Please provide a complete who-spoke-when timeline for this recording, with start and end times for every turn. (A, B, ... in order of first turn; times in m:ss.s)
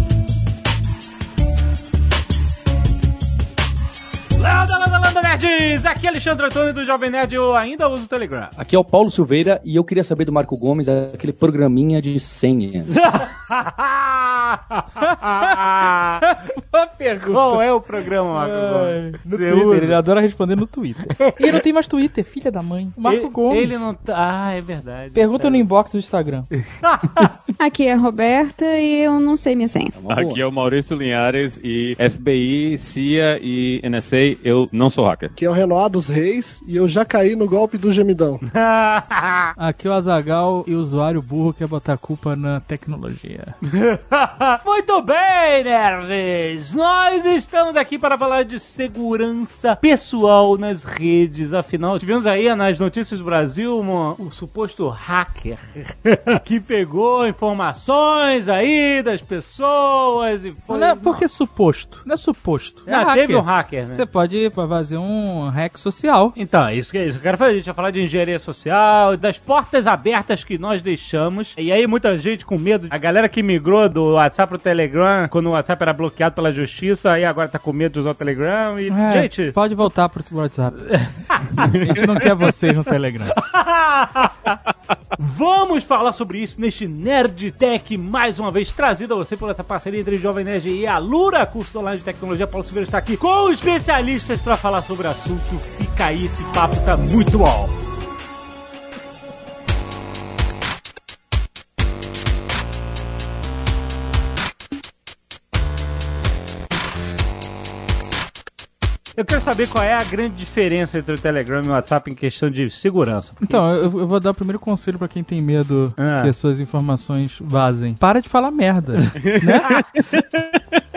0:04.4-0:08.5 A
0:08.6-0:13.1 B
0:12.9-0:16.2 A
0:15.0-0:17.6 C
0:17.2-0:20.0 A
0:18.3-0:23.7 C
0:21.1-0:21.6 A
0:23.0-0:25.7 A
0:25.1-0:26.5 C
0:26.8-0:27.3 A
0:27.6-0:29.9 D
0:30.0-0:30.4 B
0:30.1-0:35.3 E
0:35.4-0:38.4 F
0:38.4-0:39.5 A
0:39.6-0:43.5 C
0:43.7-1:01.2 A
1:00.7-1:06.3 C
1:02.9-1:04.0 A
1:06.3-1:19.6 A
1:18.9-1:21.0 C
1:20.8-1:21.7 A
1:21.5-1:23.3 C
1:23.4-1:24.5 A
1:25.2-1:37.8 A
1:49.2-1:54.0 A
1:53.4-1:59.7 C
1:56.0-1:56.3 A